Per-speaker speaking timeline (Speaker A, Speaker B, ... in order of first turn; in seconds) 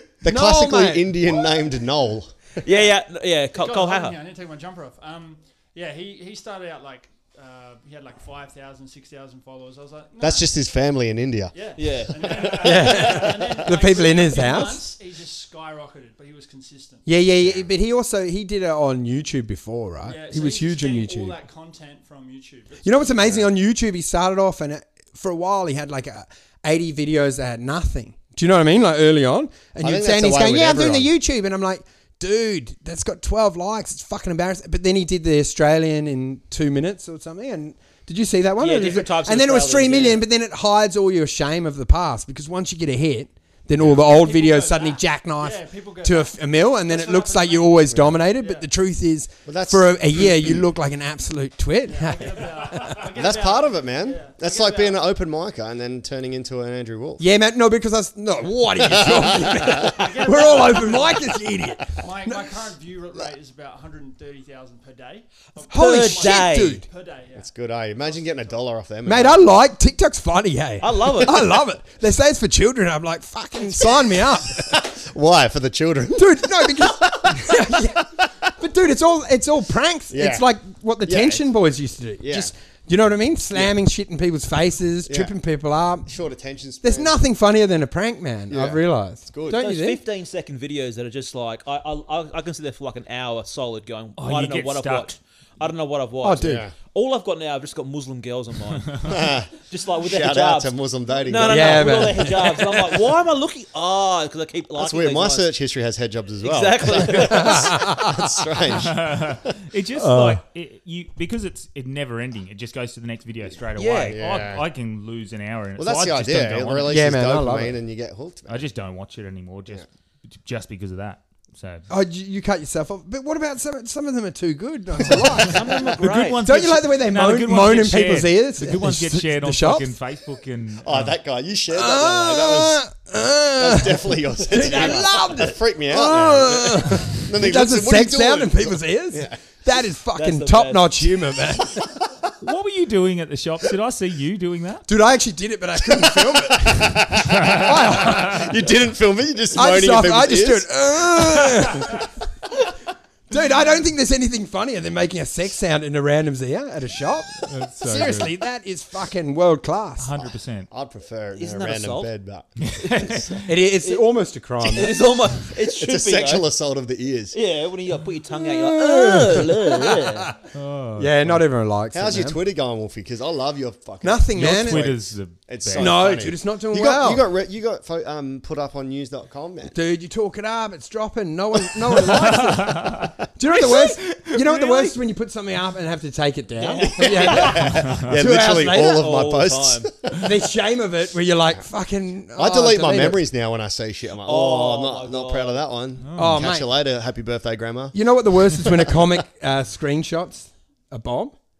Speaker A: 0.2-2.3, 10.2-11.5, 23.2-23.5, 29.8-31.1, 49.5-50.6, 53.1-57.3, 58.8-60.0, 67.3-69.5, 73.6-78.2, 80.1-80.5, 81.0-81.5, 82.2-82.5, 85.1-85.3, 86.0-87.2, 88.5-89.6, 96.4-96.7, 99.0-102.3, 104.8-109.5, 114.0-114.6, 115.8-118.7, 130.8-132.8, 133.5-139.4, 145.8-151.9, 160.2-163.4, 165.5-167.4, 171.9-179.7, 186.8-190.2, 192.3-199.1
Speaker B: 0.2-1.1, 12.6-14.9, 17.1-21.4, 22.8-53.0, 57.2-62.5, 65.7-66.8, 69.0-74.8, 76.2-86.1, 86.8-90.0, 96.2-96.7, 101.5-102.7, 107.1-108.1, 110.0-110.4, 116.9-117.8, 121.9-125.7, 126.4-129.9, 131.7-141.9, 144.9-148.6, 149.5-152.1, 153.3-160.1, 163.4-165.0, 168.3-170.4, 171.0-172.4, 174.0-174.9, 175.7-177.2, 179.7-189.0, 190.1-193.2, 196.2-196.7, 197.9-201.3
Speaker C: 2.6-4.2, 11.8-12.9, 38.6-40.2, 65.7-66.8, 70.8-71.5, 89.5-100.7, 101.2-105.5, 106.4-107.8, 113.8-114.2, 125.3-126.4, 134.6-135.1, 140.1-141.1, 161.3-162.1, 164.6-166.4, 167.3-170.3, 186.6-187.7, 188.7-189.9, 194.2-195.6
Speaker D: 2.7-2.9, 3.5-10.5, 11.5-17.1, 20.0-23.4, 43.9-48.7, 51.9-55.0, 59.8-61.4, 61.9-68.6
Speaker E: 94.2-95.1, 108.8-116.9, 118.5-121.8, 126.0-131.2, 142.4-144.8, 147.3-148.4, 157.5-158.4, 160.0-160.7, 162.6-163.5, 170.5-171.4, 174.3-176.0, 182.0-184.9, 187.6-188.2, 196.0-196.5